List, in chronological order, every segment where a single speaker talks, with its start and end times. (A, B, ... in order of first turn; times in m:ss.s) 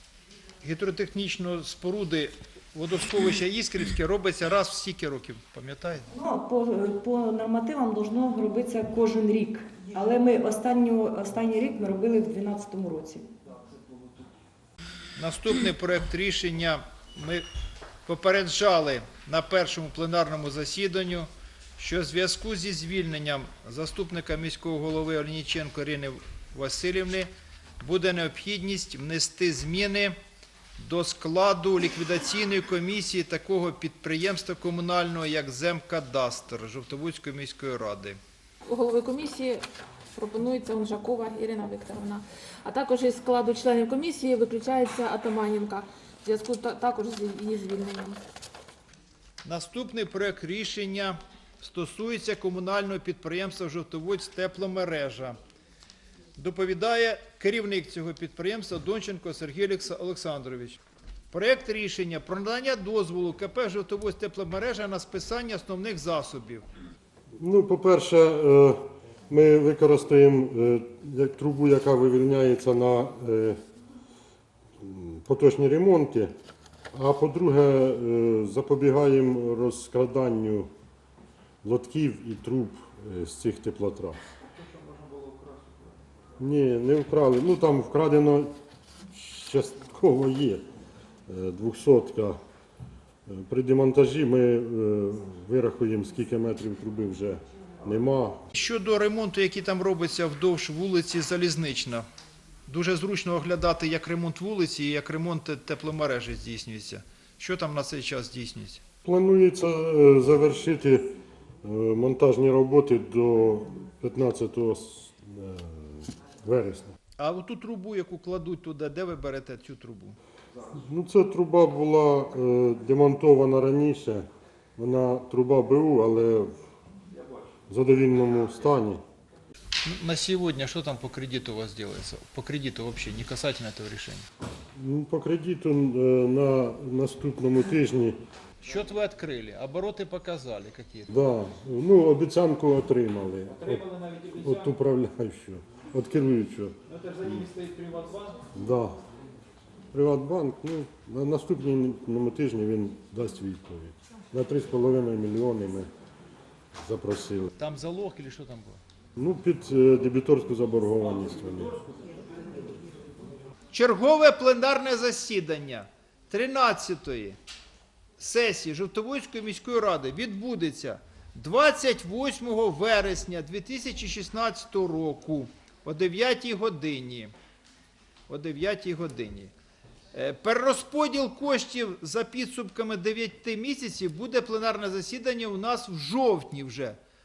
0:00.6-0:06.1 A
0:06.1-0:13.2 B
0:15.2-0:17.4 A
0:18.1-0:27.3 A
0:27.8-0:30.1 A
0:30.8-0:38.2 A
0:38.7-0:39.6 C
0:40.2-0:48.2 C
0:49.4-0:55.4 A
0:56.4-1:00.8 A
1:01.3-1:06.6 A
1:07.4-1:13.6 D
1:14.8-1:16.3 D
1:16.9-1:20.7 D
1:21.6-1:24.2 D
1:24.5-1:25.9 A
1:26.4-1:28.5 D
1:29.1-1:30.6 D
1:31.3-1:32.4 D
1:33.3-1:38.4 D
1:38.5-1:42.0 A
1:42.7-1:48.8 A
1:49.0-1:56.9 D
1:57.2-2:00.2 A
2:00.7-2:06.5 D
2:07.7-2:09.0 D
2:09.8-2:14.2 A
2:14.8-2:18.2 D
2:18.6-2:21.1 A
2:21.1-2:23.8 D
2:23.5-2:24.8 A
2:24.4-2:26.8 D
2:26.9-2:28.4 A
2:28.6-2:29.0 D
2:29.9-2:35.9 D
2:36.8-2:37.5 D
2:37.6-2:38.8 A
2:39.2-2:41.8 D
2:43.7-2:47.4 A
2:48.2-2:57.3 A
2:58.3-2:59.5 A
3:00.1-3:07.0 A